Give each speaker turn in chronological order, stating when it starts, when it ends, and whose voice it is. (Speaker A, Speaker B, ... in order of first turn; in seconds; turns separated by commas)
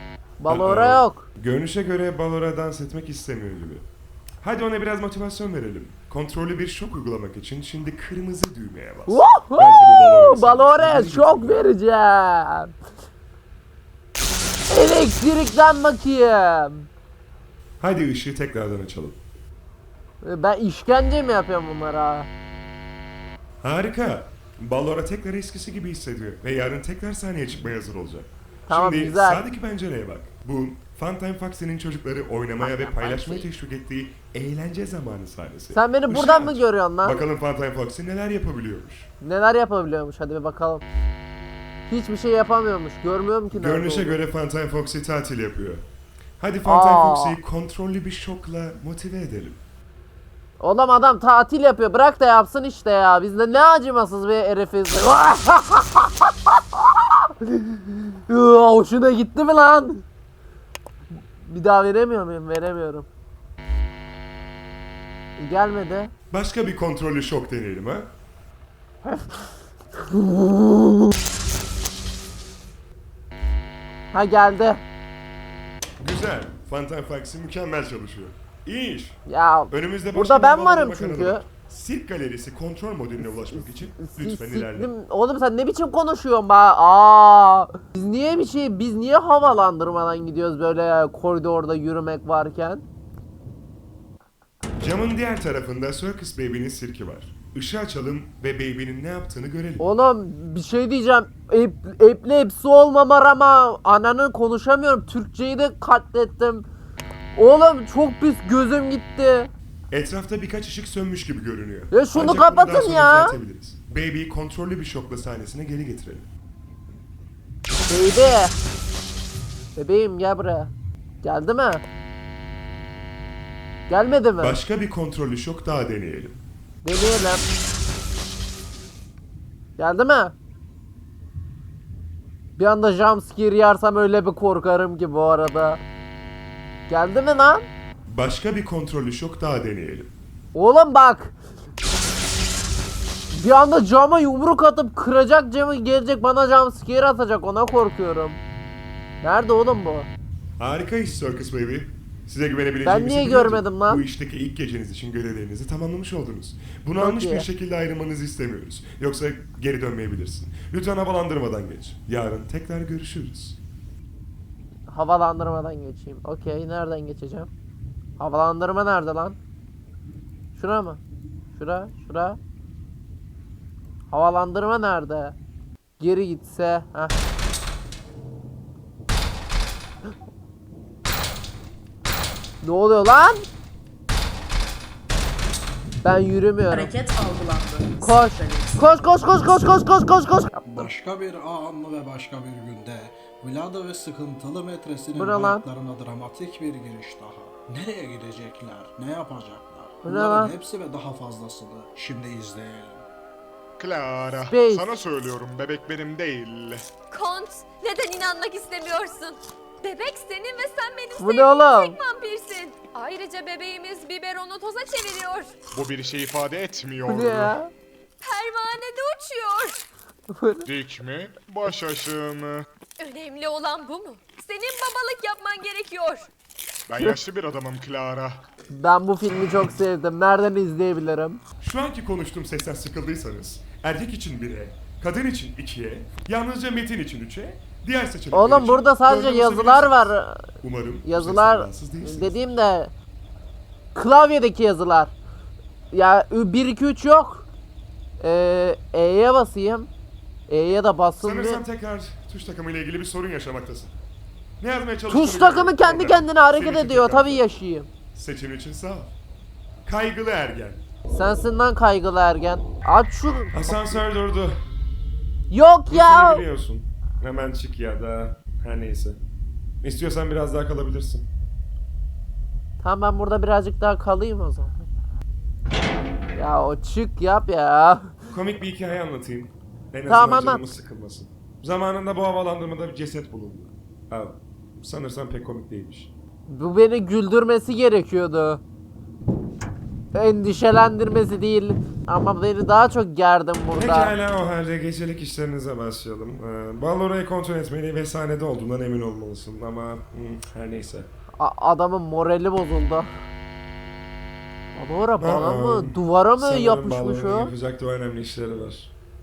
Speaker A: 0.4-1.3, Speaker B: 0.5-3.9, Speaker B: 4.4-11.6, Speaker A: 9.1-12.7, Speaker A: 14.7-16.9, Speaker B: 17.8-19.2, Speaker A: 20.2-22.3, Speaker B: 23.6-39.1, Speaker A: 28.7-29.4, Speaker A: 32.6-33.5, Speaker A: 35.7-37.2, Speaker A: 39.2-40.9, Speaker A: 41.9-44.2, Speaker B: 43.5-45.9, Speaker B: 46.4-49.6, Speaker A: 46.6-47.4, Speaker A: 50.6-60.0, Speaker A: 61.4-63.1, Speaker A: 65.4-66.1, Speaker B: 66.3-68.1, Speaker A: 69.0-71.1, Speaker A: 74.1-74.8, Speaker B: 76.0-84.9, Speaker A: 79.3-81.4, Speaker A: 83.5-92.8, Speaker B: 94.8-99.8, Speaker A: 99.8-106.7, Speaker A: 107.4-109.5, Speaker B: 109.9-116.3, Speaker A: 111.9-113.4, Speaker A: 117.9-118.6, Speaker A: 119.8-121.8, Speaker A: 123.9-124.6, Speaker B: 124.4-126.4, Speaker A: 126.8-127.5, Speaker A: 129.8-130.3, Speaker A: 132.6-135.8, Speaker A: 136.9-137.7, Speaker B: 138.1-140.1, Speaker A: 140.5-141.3, Speaker A: 143.3-148.4, Speaker A: 149.2-150.1, Speaker B: 150.6-163.6, Speaker A: 152.8-154.1, Speaker A: 157.0-157.5, Speaker A: 164.9-167.5, Speaker A: 168.2-169.4, Speaker A: 170.6-171.0, Speaker A: 171.5-172.4, Speaker A: 174.1-175.4, Speaker A: 176.0-177.2, Speaker A: 182.6-183.5, Speaker A: 186.0-186.9, Speaker C: 186.7-189.6, Speaker A: 188.0-190.9, Speaker D: 190.6-203.1, Speaker A: 195.2-195.7, Speaker A: 200.0-200.6, Speaker E: 203.8-206.8, Speaker A: 204.5-204.9, Speaker F: 207.1-215.5, Speaker A: 211.2-212.0, Speaker E: 215.8-217.6, Speaker A: 217.1-217.7, Speaker F: 218.2-219.8, Speaker A: 220.3-220.7, Speaker E: 220.7-222.6, Speaker F: 223.0-226.3, Speaker E: 226.9-228.3, Speaker A: 228.7-231.4, Speaker B: 231.6-242.4, Speaker A: 238.3-240.5, Speaker A: 241.1-242.9, Speaker A: 243.9-245.1, Speaker A: 245.9-247.5, Speaker A: 248.2-249.9, Speaker A: 250.5-251.6, Speaker B: 251.2-253.9, Speaker B: 254.6-257.5, Speaker A: 255.1-257.9, Speaker B: 258.1-259.1, Speaker B: 259.9-260.8, Speaker A: 261.1-264.0, Speaker B: 263.5-264.6, Speaker A: 265.5-266.4, Speaker B: 265.9-269.2, Speaker B: 269.8-271.3, Speaker A: 272.8-274.9, Speaker A: 276.4-278.1, Speaker B: 278.3-286.1, Speaker A: 280.1-280.7, Speaker A: 286.5-288.6, Speaker A: 290.1-294.1, Speaker B: 293.8-301.1, Speaker A: 301.4-303.1, Speaker A: 304.8-307.5, Speaker B: 305.2-308.9